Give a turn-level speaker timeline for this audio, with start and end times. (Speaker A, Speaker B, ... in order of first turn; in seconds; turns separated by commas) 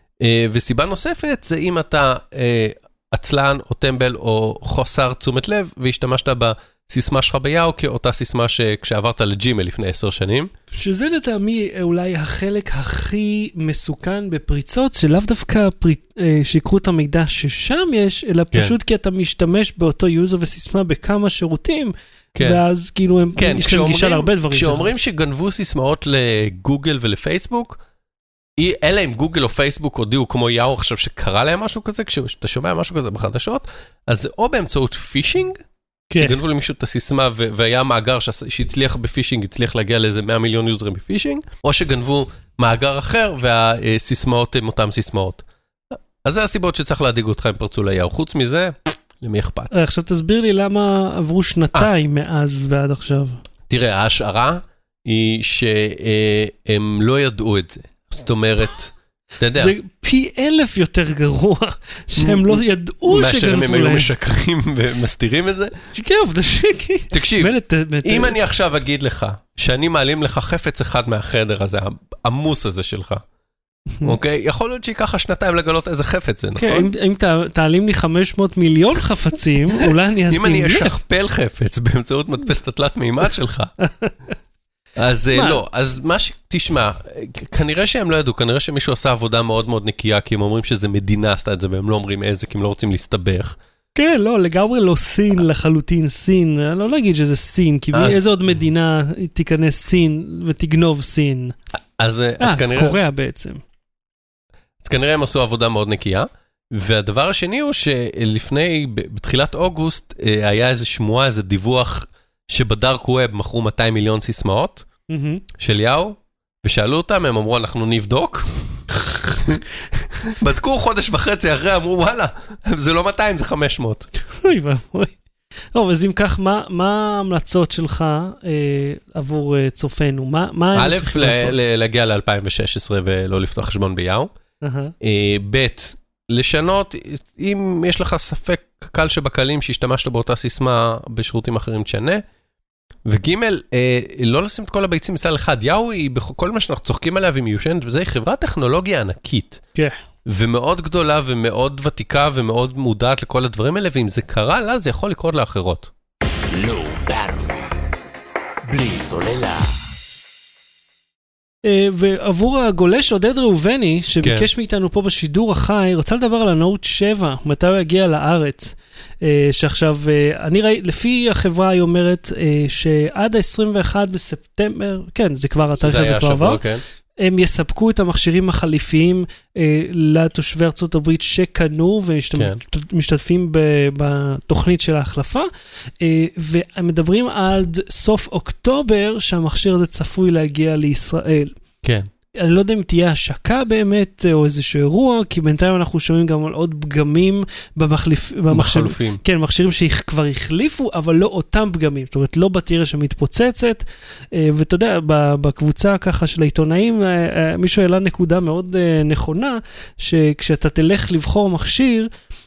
Speaker A: 0.2-10.5, Speaker B: 10.7-24.9, Speaker A: 22.3-22.6, Speaker A: 23.4-27.8, Speaker A: 28.6-35.6, Speaker B: 36.1-36.4, Speaker A: 36.1-45.4, Speaker A: 46.2-49.7, Speaker B: 49.7-53.4, Speaker A: 53.7-59.7, Speaker B: 59.5-64.1, Speaker A: 62.2-65.7, Speaker B: 65.9-68.4, Speaker A: 67.1-73.2, Speaker A: 74.0-76.9, Speaker B: 76.5-81.0, Speaker A: 80.3-83.7, Speaker B: 83.9-84.1, Speaker A: 85.0-93.6, Speaker B: 85.3-85.6, Speaker B: 93.9-101.5, Speaker A: 97.9-98.3, Speaker A: 102.0-103.0, Speaker B: 102.4-103.6, Speaker A: 104.8-114.8, Speaker B: 115.1-115.4, Speaker A: 115.6-119.6, Speaker A: 120.2-124.1, Speaker B: 124.3-125.2, Speaker B: 125.7-131.5, Speaker A: 130.7-134.3, Speaker B: 134.6-134.9, Speaker A: 135.0-142.2, Speaker A: 143.1-149.6, Speaker A: 150.2-155.9, Speaker C: 156.3-157.9, Speaker C: 158.7-159.9, Speaker B: 161.6-176.6, Speaker A: 164.2-164.5, Speaker A: 175.8-176.8, Speaker B: 177.2-185.5, Speaker B: 186.0-191.5, Speaker A: 191.8-192.1, Speaker B: 192.3-212.1, Speaker A: 198.5-199.2